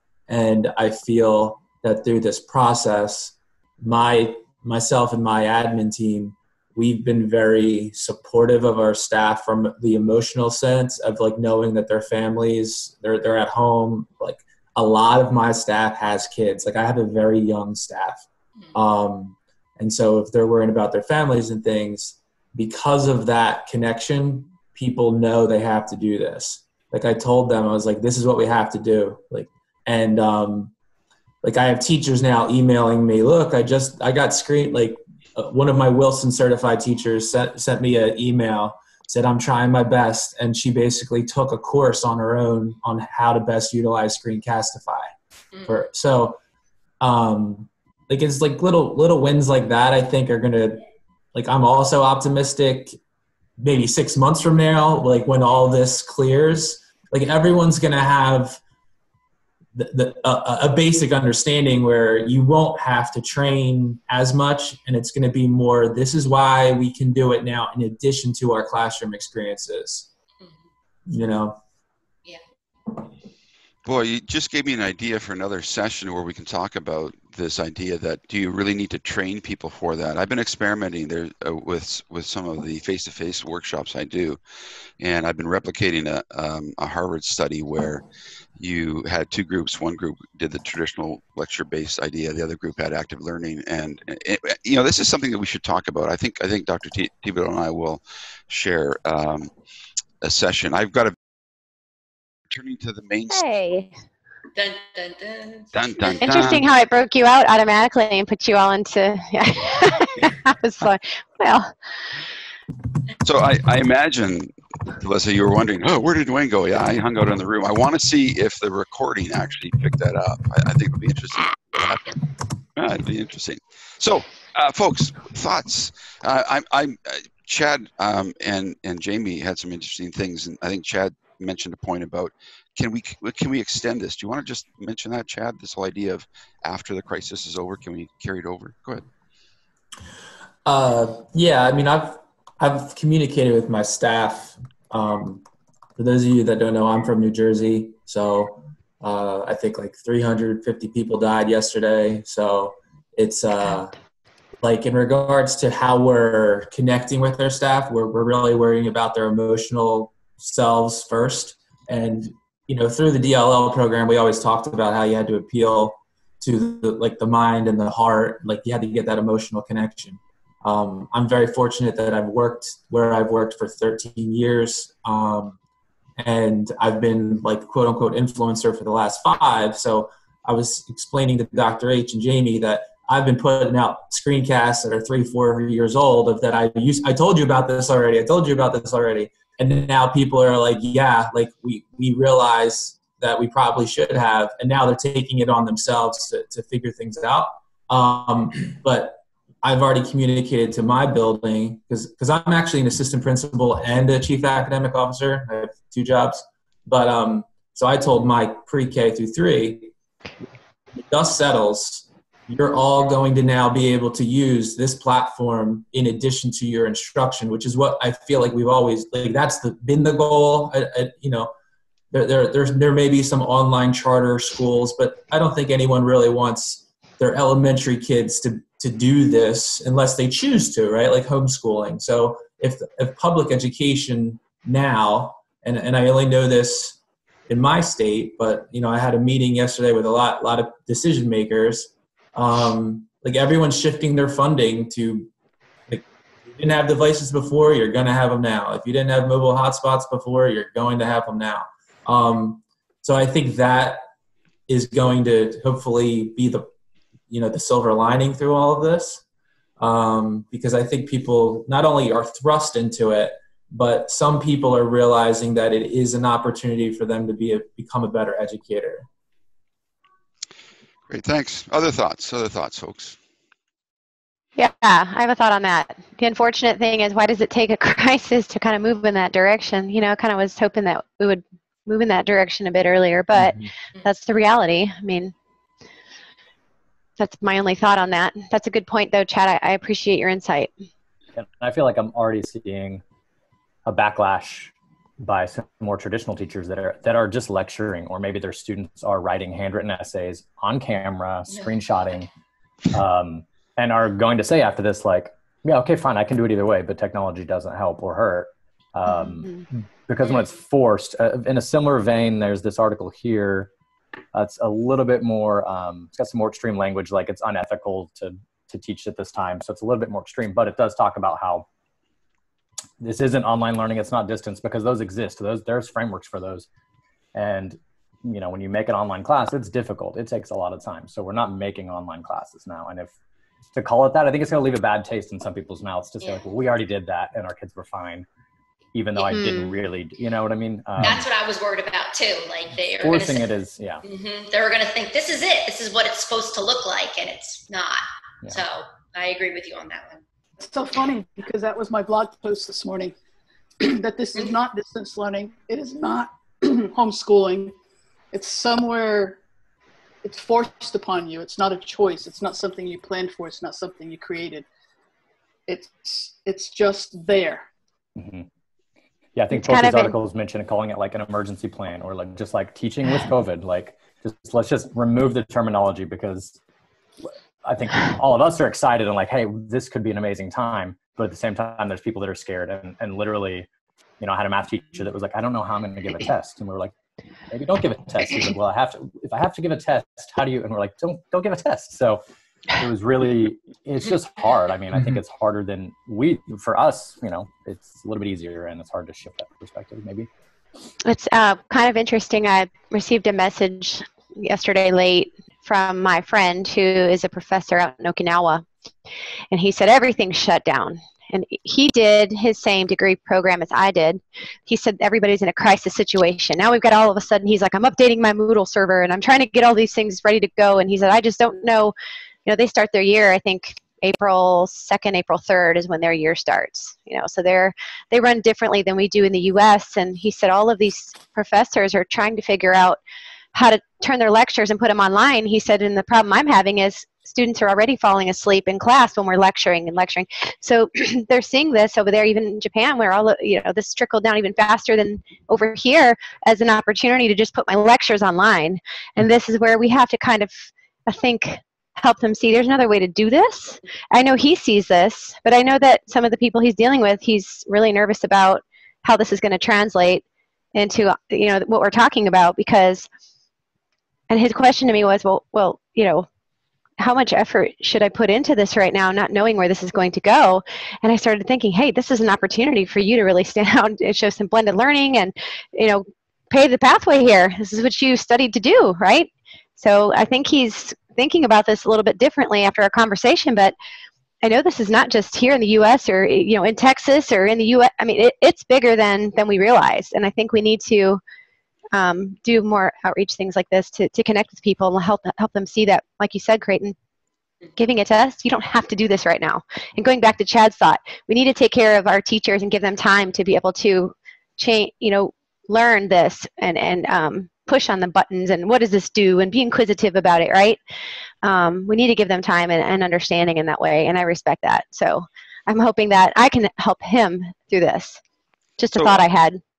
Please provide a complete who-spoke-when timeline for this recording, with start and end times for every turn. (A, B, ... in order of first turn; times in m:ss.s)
0:00.3-0:30.7 A
0:31.4-0:45.1 A
0:45.5-0:45.8 B
0:45.6-0:46.4 A
0:47.0-0:50.8 A
0:51.3-0:53.0 A
0:53.6-0:58.6 A
0:59.7-1:10.1 A
1:11.1-1:11.6 A
1:13.8-1:24.4 C
1:25.0-1:28.0 C
1:28.6-1:39.5 C
1:40.2-1:41.1 C
1:42.5-1:43.4 C
1:43.3-1:43.9 D
1:44.5-1:45.7 B
1:45.7-1:46.6 C
1:46.1-1:51.7 D
1:53.2-2:02.2 C
2:02.8-2:19.0 C
2:20.6-2:25.4 A
2:26.0-2:33.9 A
2:34.6-2:55.6 A
2:56.2-3:29.9 A
3:31.0-3:41.5 A
3:42.1-4:05.3 A
4:05.9-4:14.0 A
4:14.7-4:16.7 A
4:17.3-4:19.2 A
4:19.8-4:29.0 A
4:31.1-4:33.2 C
4:34.6-4:45.3 D
4:43.4-4:43.7 E
4:47.2-4:50.7 D
4:51.3-4:53.0 E
4:53.8-5:02.3 E
5:02.9-5:13.7 E
5:09.1-5:09.6 D
5:14.3-5:21.7 E
5:23.0-5:26.7 E
5:27.3-5:33.1 E
5:33.7-5:38.2 E
5:36.2-5:36.4 B
5:38.9-5:41.2 E
5:39.3-5:39.7 D
5:41.0-5:43.5 B
5:43.0-5:44.0 E
5:44.0-5:50.2 B
5:50.6-5:53.1 F
5:53.8-5:57.7 F
5:58.3-5:59.4 F
6:00.2-6:04.6 F
6:05.7-6:07.6 F
6:08.2-6:08.5 E
6:09.4-6:16.6 E
6:09.5-6:10.1 D
6:17.6-6:23.7 E
6:24.2-6:26.9 E
6:27.5-6:32.2 E
6:32.7-6:40.3 E
6:41.0-6:48.6 D
6:49.5-7:01.9 D
7:02.4-7:13.0 D
7:13.5-7:40.2 D
7:40.7-7:43.1 D
7:44.3-7:46.2 D
7:47.0-8:03.7 D
8:04.4-8:11.2 D
8:11.9-8:16.9 D
8:17.8-8:30.8 D
8:31.4-8:38.2 D
8:38.8-8:39.6 D
8:39.0-8:39.2 C